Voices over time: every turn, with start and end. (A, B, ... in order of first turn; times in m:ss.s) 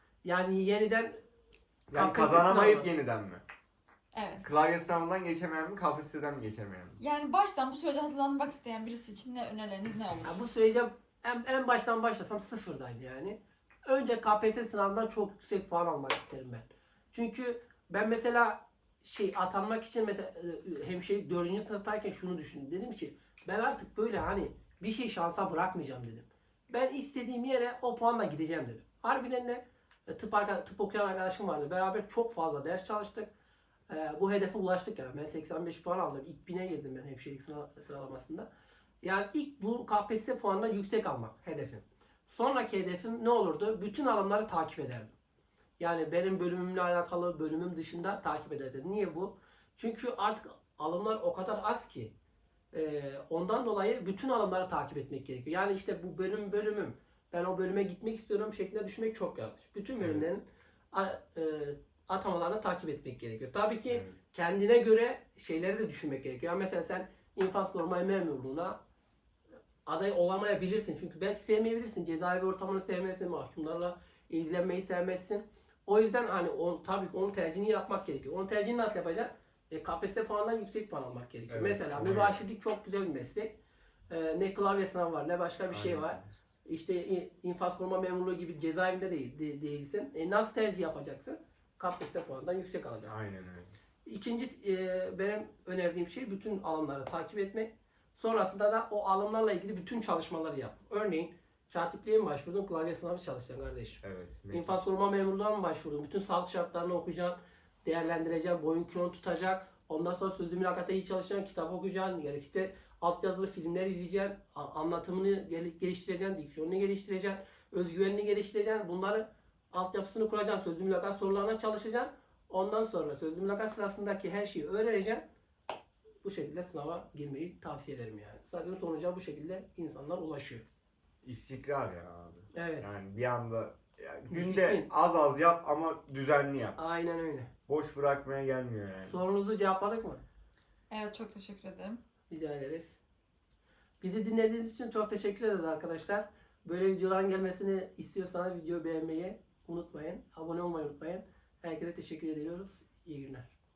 0:00.2-0:01.1 A
0:01.9-0:02.9 A
0:01.9-0:03.4 B
0:04.1-0:04.5 C
0:04.4-0:07.0 B
0:07.0-0:10.4 C
0:10.2-0:33.3 A
0:33.9-0:38.5 A
0:39.0-0:45.1 A
0:45.8-0:52.1 A
0:52.7-1:08.8 A
1:00.0-1:00.3 B
1:03.9-1:04.2 B
1:09.9-1:23.6 A
1:21.5-1:22.4 B
1:24.1-1:33.1 A
1:25.7-1:26.3 B
1:33.0-1:33.7 B
1:34.0-2:05.2 A
1:44.0-1:44.8 B
2:06.2-2:10.6 A
2:11.2-2:16.8 B
2:12.5-2:12.9 A
2:14.3-2:14.9 A
2:16.8-2:17.5 A
2:17.7-2:19.2 B
2:19.1-2:20.2 A
2:20.9-2:22.0 C
2:22.3-2:23.0 A
2:24.0-2:33.5 A